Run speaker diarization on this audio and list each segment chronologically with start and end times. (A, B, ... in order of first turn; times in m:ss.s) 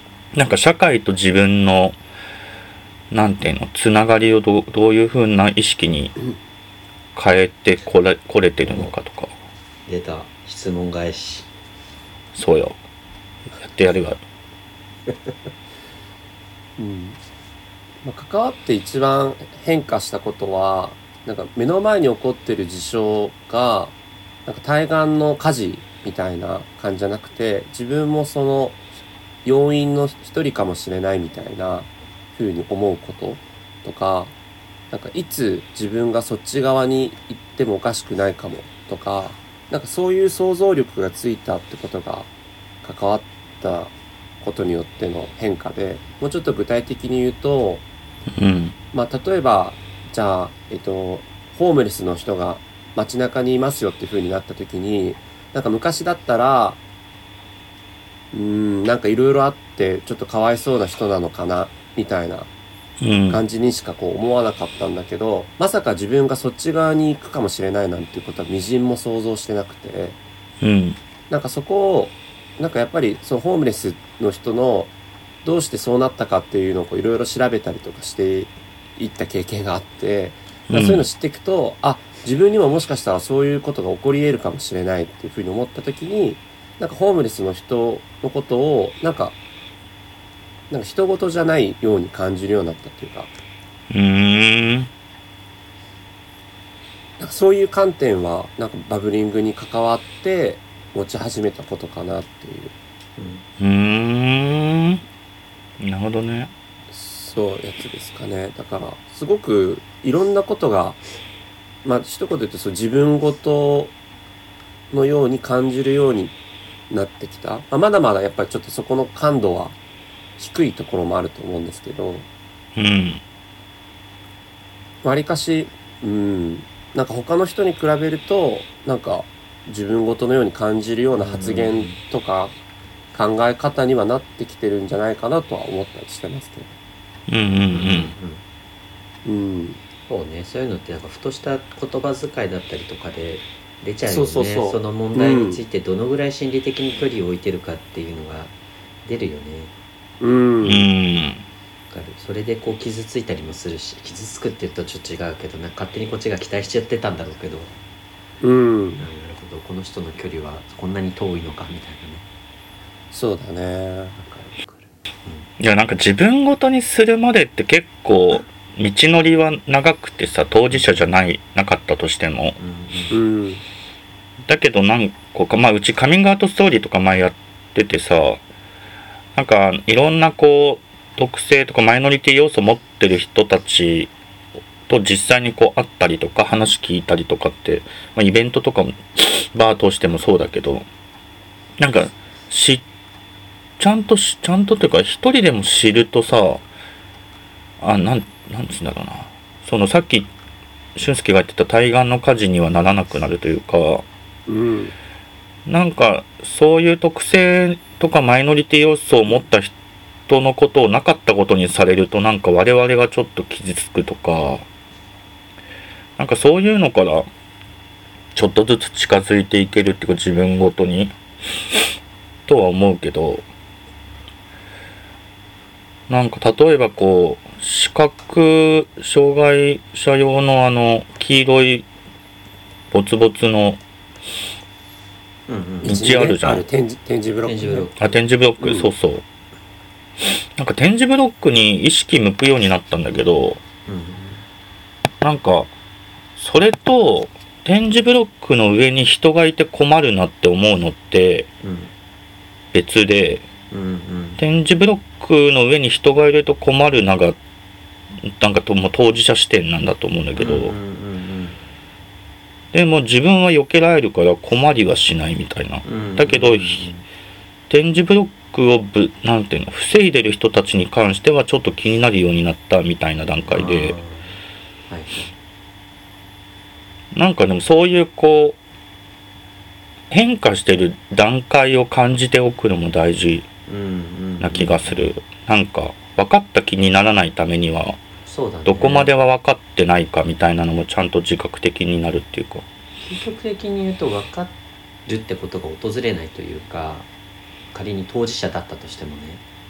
0:00.3-0:02.0 A
0:03.1-0:06.2 A
0:07.1-0:09.3 A
0:09.9-0:11.5 B
0:12.4-0:12.8 A
0:13.6-0:14.2 A
0:16.8-0:17.2 C
0:18.0-0:23.9 C
0:24.4-0:28.8 C
0:29.4-0:34.3 C
0:34.9-0:42.3 C
0:42.8-0:47.8 C
0:48.3-0:48.8 A
0:48.9-0:56.8 C
0:58.3-1:02.5 C
1:03.0-1:03.4 A
1:03.3-1:10.2 C
1:10.6-1:11.0 A
1:11.3-1:14.9 C
1:15.4-1:29.4 C
1:20.7-1:21.1 A
1:30.7-1:33.3 C
1:33.9-1:34.9 A
1:37.2-1:42.7 C
1:43.2-1:43.4 B
1:43.6-1:45.0 A
1:45.8-1:46.5 A
1:46.9-1:51.0 C
1:51.8-1:53.9 C
1:54.9-1:56.3 C
1:56.9-1:59.8 C
2:00.4-2:02.3 C
2:02.8-2:03.2 A
2:05.0-2:12.5 C
2:11.1-2:12.0 B
2:13.1-2:16.7 C
2:17.3-2:18.1 A
2:17.7-2:18.4 B
2:19.2-2:19.8 C
2:20.1-2:28.5 B
2:24.1-2:25.6 C
2:29.0-2:29.7 B
2:30.2-2:30.9 C
2:30.6-2:31.4 A
2:31.9-2:37.7 B
2:38.4-2:39.1 C
2:39.0-2:42.3 B
2:43.1-2:44.2 C
2:44.2-2:45.5 B
2:45.6-2:52.6 A
2:50.7-2:51.1 B
2:52.6-2:53.2 B
2:53.1-2:53.6 C
2:54.5-2:58.4 A
2:59.4-3:04.1 A
3:04.9-3:10.8 A
3:11.8-3:12.8 A
3:13.8-3:16.6 A
3:17.8-3:20.3 A
3:21.0-3:24.0 A
3:24.5-3:24.9 C
3:25.6-3:29.7 A
3:30.3-3:34.6 A
3:36.2-3:37.3 A
3:38.4-3:41.1 A
3:42.5-3:43.4 A
3:46.1-3:51.9 A
3:52.9-3:53.8 A
3:55.5-3:56.0 B
3:55.8-3:56.6 A
3:55.8-3:57.9 C
3:57.4-3:58.2 B
3:58.0-3:59.2 A
4:00.2-4:03.6 A
4:03.9-4:04.4 B
4:05.2-4:05.7 A
4:06.4-4:11.5 A
4:11.6-4:11.9 B
4:12.7-4:13.4 A
4:13.7-4:14.4 B
4:14.4-4:17.4 A
4:18.2-4:20.8 A
4:20.4-4:21.6 B
4:22.7-4:26.9 A
4:25.8-4:27.0 B
4:27.7-4:34.0 A
4:33.5-4:34.4 B
4:34.9-4:35.3 B
4:37.1-4:38.6 A
4:40.1-4:43.4 A
4:43.7-4:45.1 B
4:44.4-4:48.0 A
4:48.3-4:49.2 B
4:48.6-4:52.6 A
4:53.0-4:54.5 B
4:55.1-4:57.1 B
4:57.7-4:59.4 B